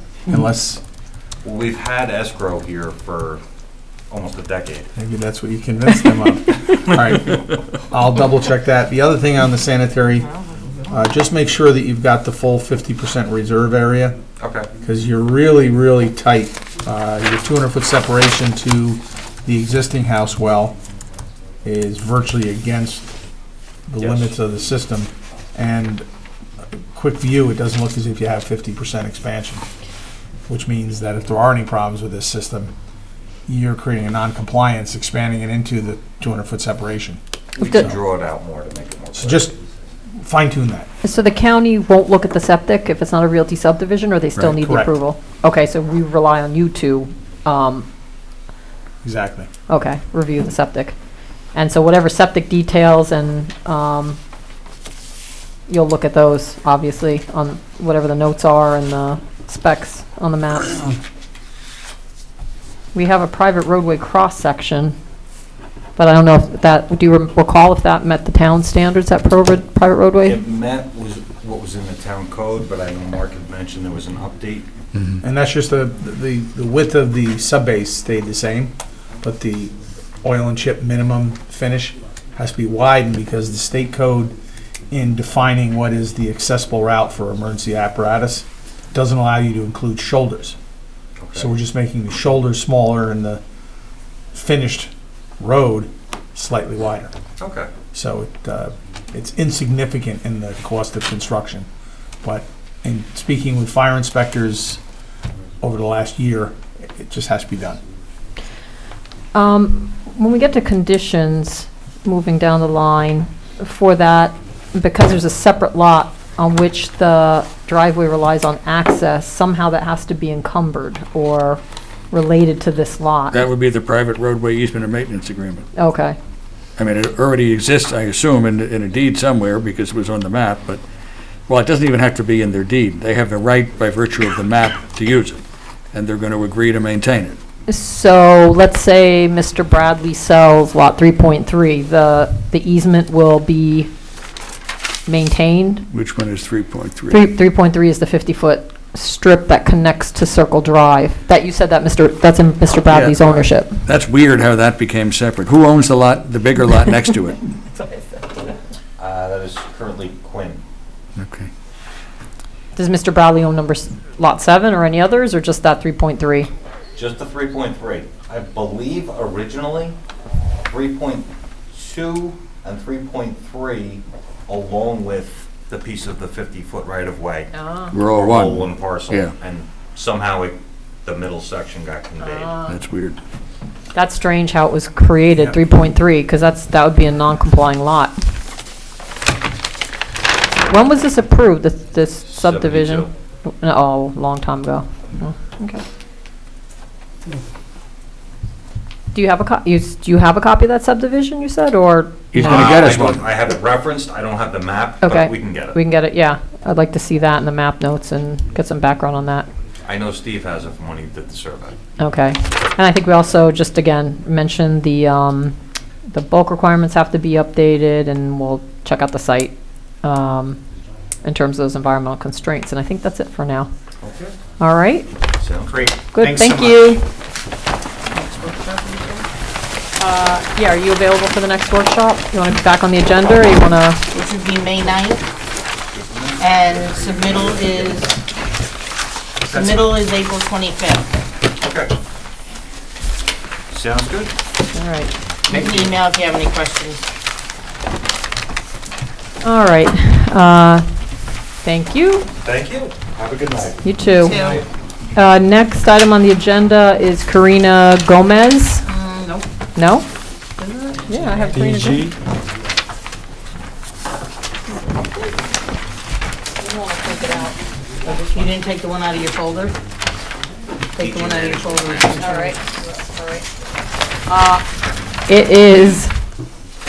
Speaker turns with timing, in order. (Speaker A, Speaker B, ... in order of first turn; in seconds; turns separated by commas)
Speaker A: 0.3-0.8, Speaker B: 1.4-3.4, Speaker B: 4.1-4.9, Speaker A: 5.0-10.3, Speaker C: 10.4-10.8, Speaker A: 10.9-14.2, Speaker B: 14.4-14.7, Speaker A: 14.8-20.8, Speaker A: 21.6-23.1, Speaker A: 23.9-26.1, Speaker B: 24.0-24.3, Speaker A: 26.9-29.6, Speaker A: 30.5-32.7, Speaker A: 33.5-38.0, Speaker B: 37.5-39.6, Speaker D: 37.6-37.9, Speaker A: 39.1-39.5, Speaker A: 40.2-40.9, Speaker D: 41.0-47.9, Speaker A: 44.4-44.9, Speaker A: 49.0-49.5, Speaker D: 49.7-51.0, Speaker D: 51.5-54.2, Speaker D: 55.7-60.9, Speaker D: 62.9-65.0, Speaker D: 66.0-70.4, Speaker B: 70.2-74.7, Speaker E: 74.9-75.2, Speaker A: 75.2-84.3, Speaker A: 84.9-90.6, Speaker B: 91.2-91.5, Speaker A: 91.3-93.4, Speaker A: 94.3-97.1, Speaker B: 97.4-97.7, Speaker A: 97.9-101.7, Speaker A: 102.2-104.8, Speaker A: 105.6-107.8, Speaker D: 109.3-123.5, Speaker E: 123.3-125.6, Speaker D: 125.7-126.2, Speaker E: 126.8-130.8, Speaker E: 131.5-135.4, Speaker E: 135.9-137.4, Speaker D: 137.7-143.9, Speaker D: 145.1-145.8, Speaker E: 145.9-147.2, Speaker D: 147.1-153.8, Speaker E: 152.9-157.4, Speaker B: 159.0-160.6, Speaker E: 161.2-161.5, Speaker D: 162.8-166.5, Speaker B: 166.9-170.0, Speaker B: 170.6-182.6, Speaker D: 177.5-177.9, Speaker E: 177.9-179.3, Speaker D: 182.2-182.8, Speaker E: 182.6-183.2, Speaker D: 183.9-188.2, Speaker B: 185.3-185.6, Speaker D: 190.6-195.8, Speaker B: 192.3-193.1, Speaker D: 199.1-202.7, Speaker E: 202.3-203.2, Speaker B: 202.4-205.8, Speaker D: 205.0-209.5, Speaker B: 209.8-211.8, Speaker D: 212.0-215.6, Speaker D: 216.1-220.6, Speaker D: 221.2-223.7, Speaker B: 224.0-224.4, Speaker D: 224.6-225.1, Speaker B: 225.3-225.8, Speaker A: 225.7-227.0, Speaker D: 226.1-227.0, Speaker C: 228.1-229.2, Speaker D: 230.0-234.0, Speaker C: 234.1-235.2, Speaker B: 235.9-238.1, Speaker C: 236.4-238.2, Speaker B: 239.4-240.0, Speaker C: 239.4-241.1, Speaker B: 241.6-241.9, Speaker B: 243.7-244.3, Speaker D: 244.7-245.1, Speaker C: 245.5-247.0, Speaker B: 245.5-245.9, Speaker D: 249.4-250.9, Speaker D: 251.6-252.3, Speaker B: 252.4-254.7, Speaker D: 253.8-254.5, Speaker C: 254.1-254.6, Speaker D: 255.1-258.9, Speaker C: 258.8-259.5, Speaker D: 259.7-260.1, Speaker C: 260.6-261.7, Speaker D: 261.0-262.1, Speaker E: 261.5-262.1, Speaker D: 266.6-267.6, Speaker C: 268.0-269.7, Speaker C: 270.9-272.6, Speaker B: 271.0-272.3, Speaker D: 272.1-273.4, Speaker D: 274.3-274.6, Speaker D: 275.3-276.1